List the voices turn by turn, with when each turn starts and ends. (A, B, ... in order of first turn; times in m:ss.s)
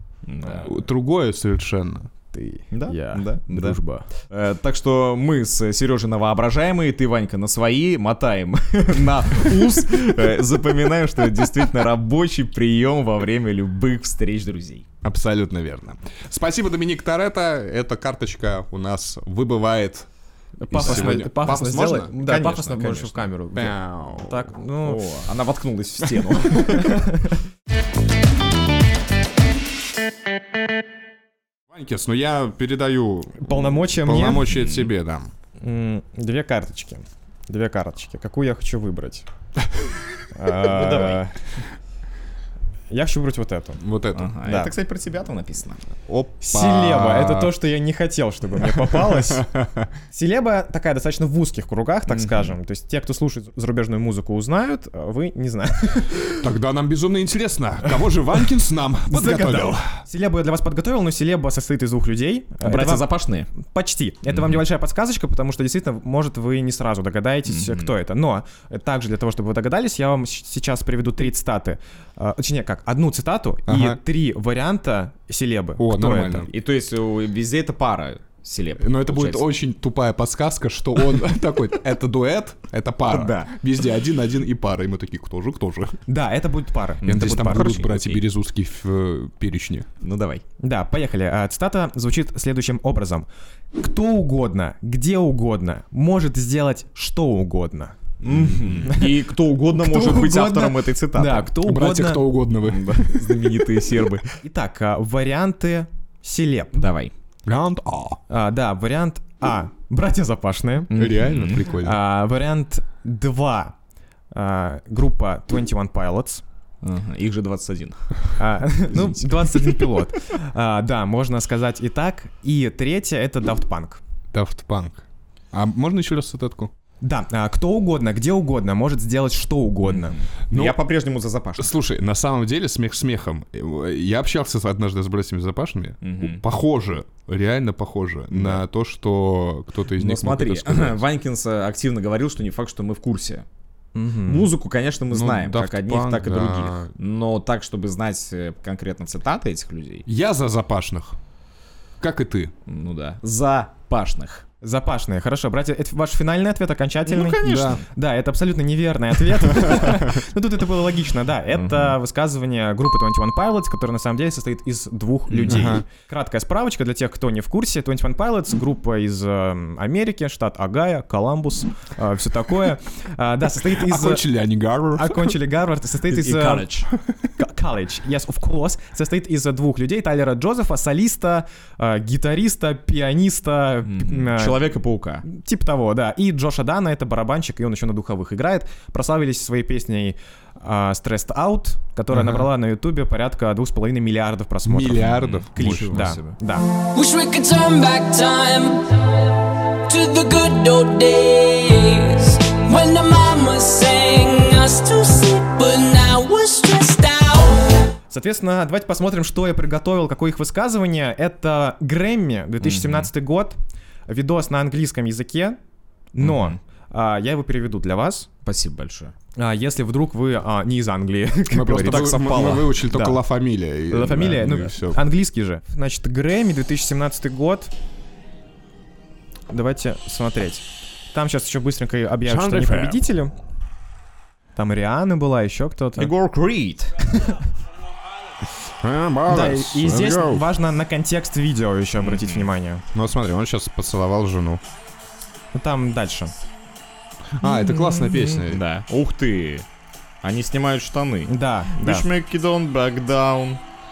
0:00.2-0:00.7 A
0:00.4-0:02.1 B
0:02.3-0:04.1 C
0:02.7-0:14.9 A
0:15.0-0:20.1 B
0:20.6-0:25.1 C
0:20.7-0:22.1 B
0:20.7-0:21.3 A
0:22.2-0:23.3 A
0:23.6-0:24.5 B
0:24.8-0:27.1 A
0:26.7-0:27.4 C
0:31.7-0:35.3 B
0:33.4-0:34.5 C
0:34.5-0:34.9 A
0:35.6-0:39.3 C
0:40.3-0:41.4 C
0:40.6-0:41.2 A
0:42.9-0:43.8 C
0:43.8-0:44.3 B
0:44.1-0:45.8 A
0:44.4-0:44.7 C
0:46.1-0:47.5 B
0:46.4-0:49.5 C
0:48.6-0:49.9 B
0:50.1-0:56.3 C
0:52.1-0:52.6 A
0:56.4-0:59.9 B
0:59.1-1:16.5 C
1:02.6-1:03.5 A
1:07.5-1:07.9 A
1:13.7-1:14.0 B
1:15.8-1:16.5 B
1:16.5-1:19.5 A
1:18.8-1:26.0 B
1:23.0-1:23.5 A
1:26.1-1:27.8 C
1:27.0-1:28.2 A
1:27.0-1:29.9 B
1:30.0-1:30.4 A
1:30.6-1:38.0 C
1:38.2-1:41.5 A
1:38.3-1:38.9 B
1:38.9-1:39.2 C
1:39.7-1:42.3 C
1:41.6-1:43.7 B
1:42.6-1:44.3 A
1:44.4-1:46.8 C
1:46.8-1:47.1 A
1:47.5-1:48.2 B
1:48.3-1:50.9 C
1:50.9-1:51.7 A
1:50.9-1:52.0 B
1:51.8-1:53.8 C
1:54.3-1:56.4 C
1:56.8-1:58.3 A
1:58.4-2:04.0 C
1:58.9-1:59.9 A
2:04.3-2:06.7 B
2:07.0-2:10.2 C
2:09.9-2:11.7 A
2:10.5-2:10.8 B
2:11.6-2:21.0 B
2:16.0-2:16.4 A
2:18.3-2:18.6 A
2:19.9-2:23.5 A
2:24.0-2:24.5 C
2:24.2-2:30.0 A
2:25.1-2:26.9 B
2:30.1-2:31.2 B
2:32.0-2:32.5 B
2:32.7-2:34.4 A
2:34.6-2:54.2 C
2:37.1-2:37.8 A
2:37.3-2:37.8 B
2:39.6-2:39.9 B
2:41.5-2:42.0 A
2:45.3-2:45.8 A
2:45.5-2:45.8 B
2:53.6-2:55.3 B
2:55.0-2:56.7 C
2:56.1-2:56.9 A
2:57.4-3:04.7 C
3:03.8-3:05.2 A
3:05.2-3:16.6 C
3:14.7-3:16.2 B
3:15.1-3:16.4 A
3:16.9-3:18.8 D
3:19.9-3:27.8 D
3:28.1-3:35.6 C
3:32.6-3:33.1 A
3:36.1-3:38.3 C
3:36.2-3:36.6 A
3:38.4-3:39.1 A
3:39.4-3:43.2 C
3:41.5-3:45.0 B
3:41.8-3:42.8 A
3:43.9-3:47.7 C
3:49.5-3:53.3 C
3:52.3-3:53.0 B
3:52.4-3:52.9 A
3:54.6-3:56.1 C
3:56.0-3:57.3 A
3:58.8-4:00.4 B
3:59.3-4:02.8 C
4:02.0-4:02.5 A
4:02.9-4:04.6 B
4:05.6-4:06.3 C
4:07.4-4:08.6 B
4:07.4-4:08.4 C
4:08.5-4:09.7 A
4:10.2-4:13.6 A
4:11.3-4:12.1 C